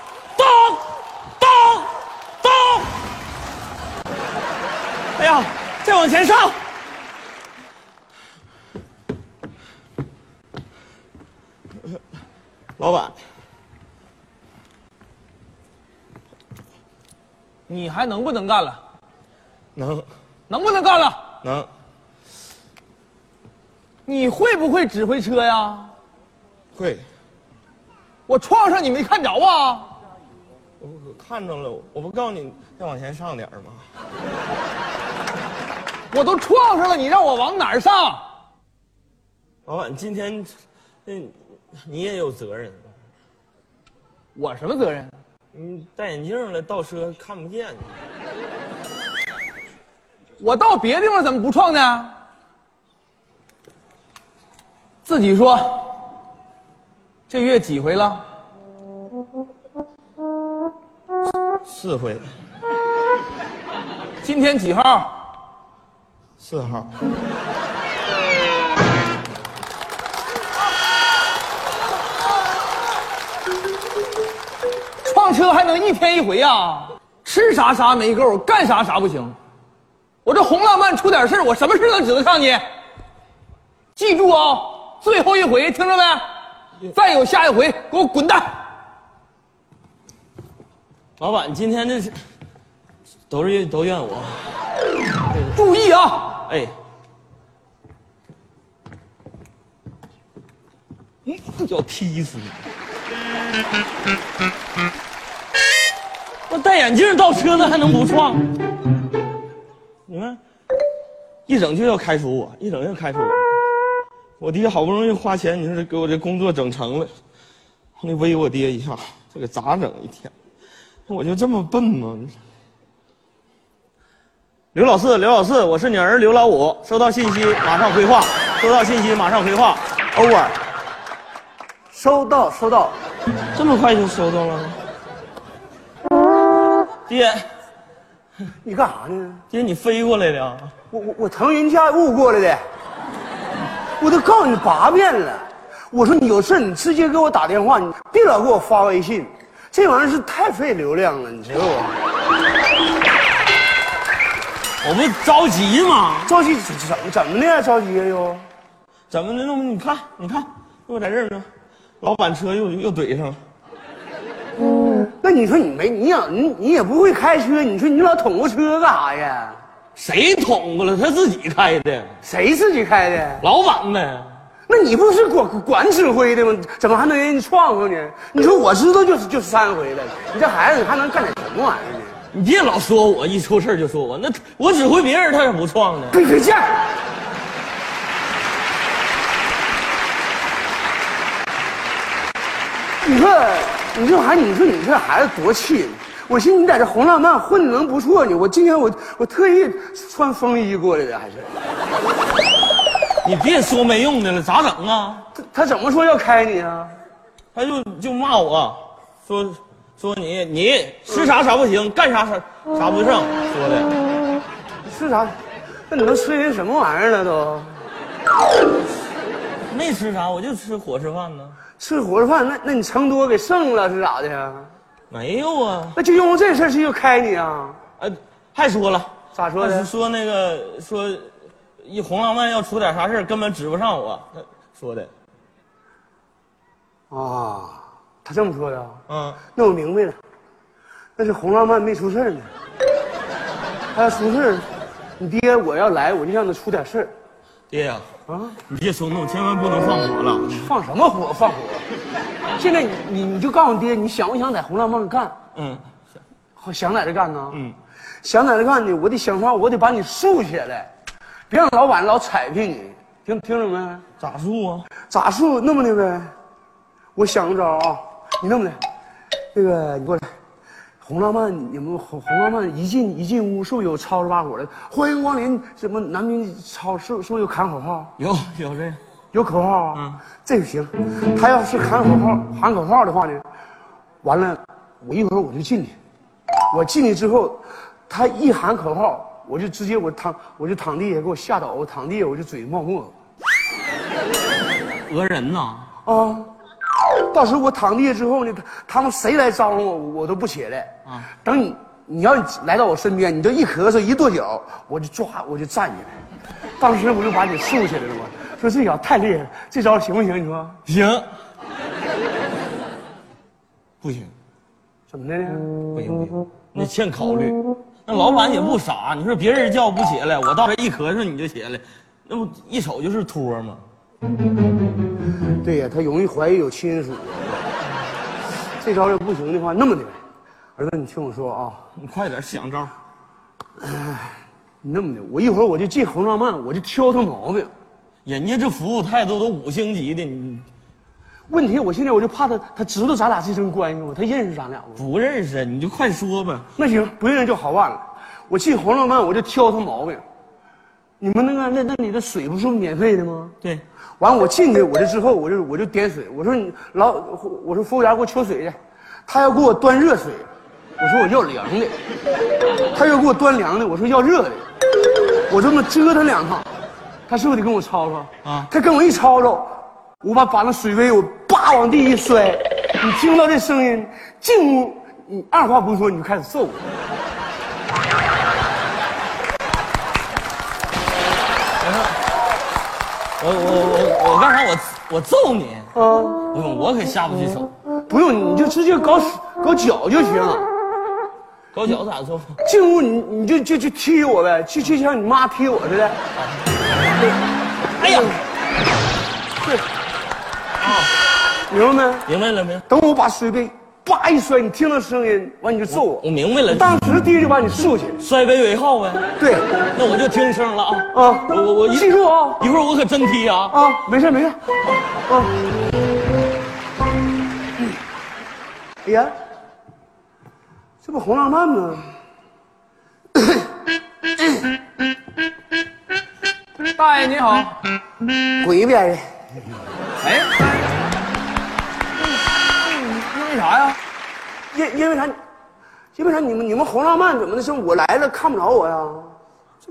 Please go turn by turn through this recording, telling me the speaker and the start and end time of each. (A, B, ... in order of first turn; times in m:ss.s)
0:00.4-0:00.8 A
0:01.4-0:03.0 A
0:05.2-0:06.6 A
0:12.8-0:13.2 A
0:17.7-0:18.8 B
0:19.8-0:20.0 A
0:20.5-0:21.2 B
0:21.4-0:21.7 A
0:24.0-0:26.0 B
0:26.8-0:27.0 A
0:28.3-0:29.9 B
0:30.8-0:33.9 A
0:36.1-0:38.3 B
0:39.7-0:40.6 A
0:41.0-0:42.9 A
0:44.3-0:45.2 B
0:45.5-0:47.9 A
0:50.4-0:52.2 B
0:55.0-0:56.0 B
0:57.3-0:58.2 B
1:01.6-1:02.3 A
1:04.2-1:05.2 B
1:06.4-1:06.9 A
1:15.0-1:19.4 B
1:20.2-1:22.6 B
1:23.9-1:26.3 B
1:26.9-1:28.6 B
1:31.2-1:32.2 A
1:33.3-1:34.6 A
1:35.5-1:36.4 B
1:36.5-1:36.7 A
1:41.2-1:42.6 A
1:46.5-1:48.5 A
1:50.1-1:50.4 A
1:51.5-1:53.5 A
1:54.4-1:57.1 A
1:58.0-2:00.3 A
2:01.1-2:02.4 A
2:04.7-2:10.4 A
2:11.9-2:13.0 C
2:13.6-2:14.8 A
2:17.1-2:17.5 A
2:18.6-2:19.4 C
2:19.5-2:20.7 A
2:20.9-2:22.6 C
2:24.0-2:32.0 C
2:34.8-2:36.3 A
2:36.2-2:38.5 C
2:39.1-2:41.5 A
2:42.0-2:43.4 A
2:44.9-2:49.6 C
2:50.0-2:52.2 A
2:52.2-2:53.5 C
2:53.4-2:54.4 A
2:54.7-3:02.2 C
3:02.3-3:06.2 A
3:06.1-3:06.9 C
3:13.0-3:21.5 C
3:23.2-3:25.3 A
3:25.3-3:27.0 C
3:27.6-3:33.9 A
3:34.8-3:35.4 C
3:35.9-3:37.9 C
3:39.7-3:41.6 A
3:41.8-3:44.7 C
3:45.1-3:46.0 A
3:45.9-3:47.8 C
3:48.0-3:55.1 A
3:49.3-3:49.9 C
3:57.1-4:00.2 C
3:59.1-3:59.4 A
4:01.2-4:02.5 C
4:03.9-4:04.7 C
4:05.2-4:07.1 C
4:07.7-4:08.1 A
4:08.3-4:08.6 C
4:08.7-4:10.7 A
4:10.5-4:11.9 C
4:12.6-4:15.4 C
4:15.6-4:15.8 A
4:16.6-4:17.6 C
4:18.2-4:20.9 C
4:21.5-4:24.0 C
4:24.2-4:24.9 A
4:25.0-4:26.3 C
4:27.2-4:28.8 C
4:29.5-4:30.3 C
4:31.0-4:38.1 C
4:38.2-4:39.0 A
4:39.3-4:43.4 C
4:39.9-4:40.2 A
4:44.2-4:46.0 C
4:46.7-4:53.1 C
4:55.1-4:55.9 A
4:56.0-4:56.5 C
4:57.3-5:06.2 C
5:06.8-5:10.8 C
5:10.9-5:11.4 A
5:14.0-5:14.3 A
5:15.1-5:15.7 C
5:15.9-5:23.8 A
5:25.6-5:27.7 C
5:28.8-5:30.2 C
5:30.8-5:31.9 C
5:32.0-5:32.9 A
5:33.8-5:37.7 C
5:38.2-5:40.7 A
5:41.5-5:45.0 C
5:45.0-5:46.7 A
5:46.8-5:50.2 C
5:51.2-5:53.6 C
5:54.2-6:00.5 C
6:01.0-6:02.0 C
6:02.9-6:04.6 C
6:05.5-6:06.7 C
6:07.3-6:16.8 C
6:08.4-6:08.7 A
6:21.8-6:22.2 A
6:23.4-6:25.9 A
6:25.9-6:26.4 C
6:26.5-6:27.7 A
6:28.1-6:30.7 C
6:31.7-6:32.6 A
6:32.6-6:36.2 C
6:38.0-6:38.4 A
6:40.8-6:41.1 A
6:41.7-6:42.3 C
6:42.2-6:42.9 A
6:42.9-6:48.2 C
6:45.9-6:47.0 A
6:48.2-6:49.3 A
6:49.4-6:49.7 C
6:49.9-6:53.8 A
6:51.1-6:52.6 C
6:53.7-6:54.6 C
6:55.2-6:55.6 C
6:59.0-6:59.3 C
7:01.0-7:02.1 C
7:06.9-7:07.8 B
7:08.6-7:09.4 C
7:10.2-7:10.7 B
7:12.8-7:14.0 B
7:14.7-7:15.4 C
7:16.2-7:19.4 C